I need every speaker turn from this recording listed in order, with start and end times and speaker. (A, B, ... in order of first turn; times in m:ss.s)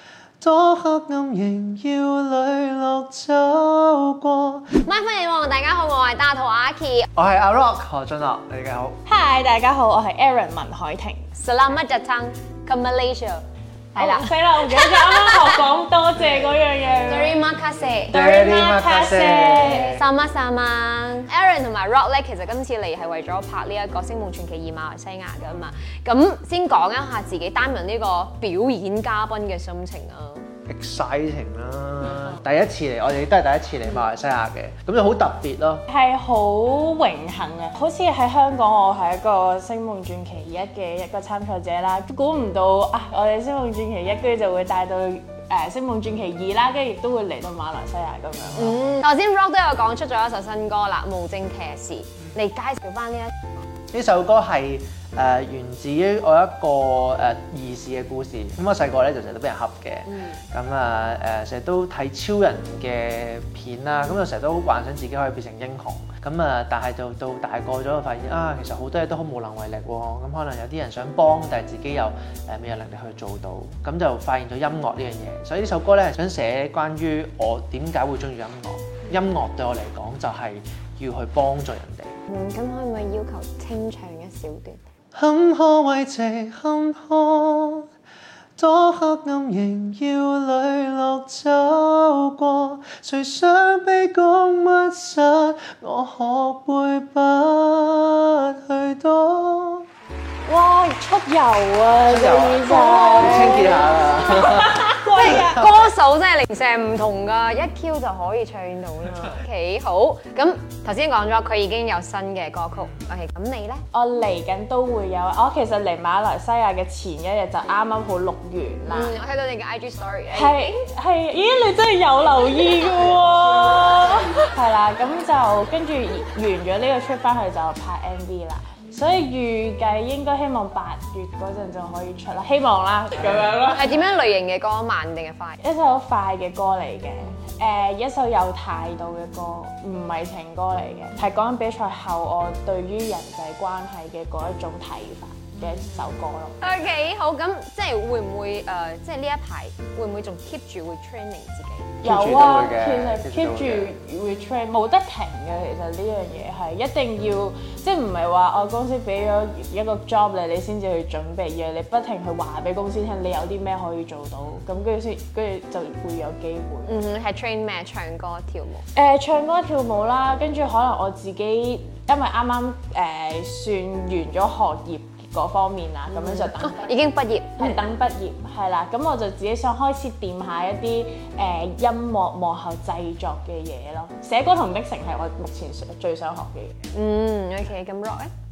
0:00.4-0:04.7 A
0:04.8-0:07.1 B
0:07.2-0:09.0 A
0:09.0-0:11.3 C
0:11.4-0:13.4 B
0:14.0-0:15.6 B
0:14.0-0:17.4 C
0:17.0-0:18.2 B
0:18.1-0:20.0 A
0:18.1-0:20.0 C
0:19.7-0:30.5 B
0:30.7-0:35.8 A
0:35.9-0:48.8 C
0:48.6-0:53.3 B
0:53.9-1:22.2 A
1:00.1-1:00.4 B
1:22.3-1:24.8 B
1:25.1-1:27.9 A
1:28.6-1:39.9 A
1:40.4-1:45.6 C
1:42.1-1:45.7 A
1:44.4-1:53.8 B
1:53.9-1:59.2 C
1:58.8-2:00.8 B
2:00.3-2:13.9 C
2:13.6-2:15.6 B
2:15.6-2:26.8 C
2:26.6-2:31.9 B
2:32.0-2:33.9 A
2:32.0-2:46.9 C
2:46.8-2:48.8 B
2:48.9-2:57.0 C
2:56.1-2:57.8 B
2:57.5-3:06.8 C
3:06.9-3:08.3 B